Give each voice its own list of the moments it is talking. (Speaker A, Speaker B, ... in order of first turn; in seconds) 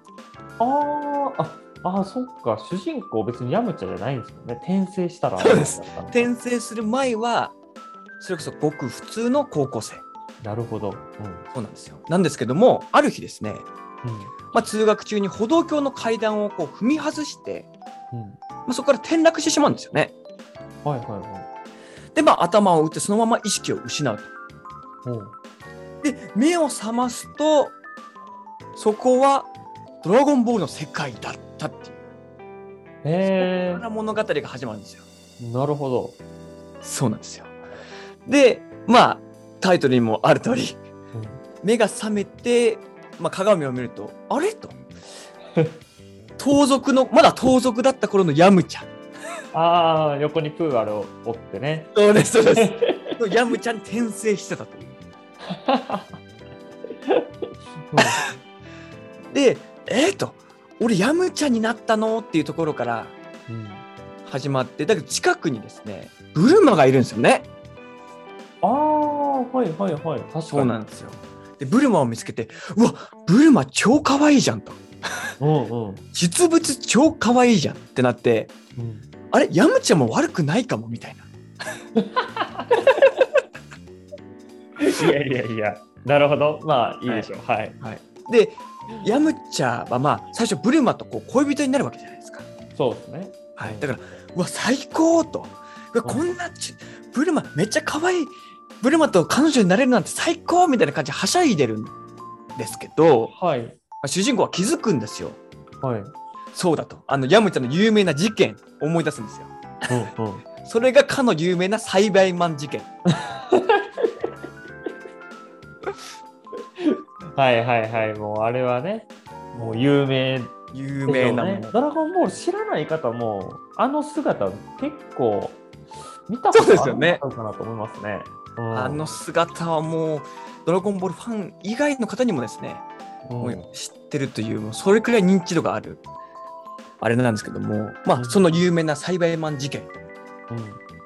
Speaker A: 0.6-6.3, 10.4-11.5, 14.0-14.3, 18.1-18.4, 20.9-21.5, 25.0-25.3, 33.0-33.9, 35.4-36.2, 41.1-41.4, 49.5-51.9, 52.6-53.1, 55.5-56.1, 57.9-58.3, 63.5-63.9, 68.6-70.7, 75.4-76.0, 78.8-79.1, 82.0-82.8, 84.8-87.8, 92.8-93.9, 103.3-103.8, 105.8-106.1, 109.9-110.4, 113.3-114.1, 116.8-120.5, 121.1-125.6, 126.3-129.2, 133.3-133.7, 138.2-138.6, 140.5-140.8
Speaker B: 5.4-7.6, 8.2-10.0, 11.5-13.7, 14.5-17.7, 18.6-20.1, 22.1-24.3, 26.0-27.8, 28.8-29.5, 30.0-32.0, 33.2-35.0, 36.8-37.6, 38.2-40.8, 41.6-44.8, 46.4-48.9, 51.9-54.9, 58.0-58.2, 59.3-63.1, 64.2-67.5, 70.5-74.8, 76.1-78.5, 79.3-81.3, 87.1-92.5, 93.6-101.9, 102.6-103.3, 104.0-105.4, 106.5-109.5, 110.6-112.9, 119.6-119.8, 120.7-121.7, 126.5-127.2, 128.7-132.9, 133.4-136.0, 137.0-139.9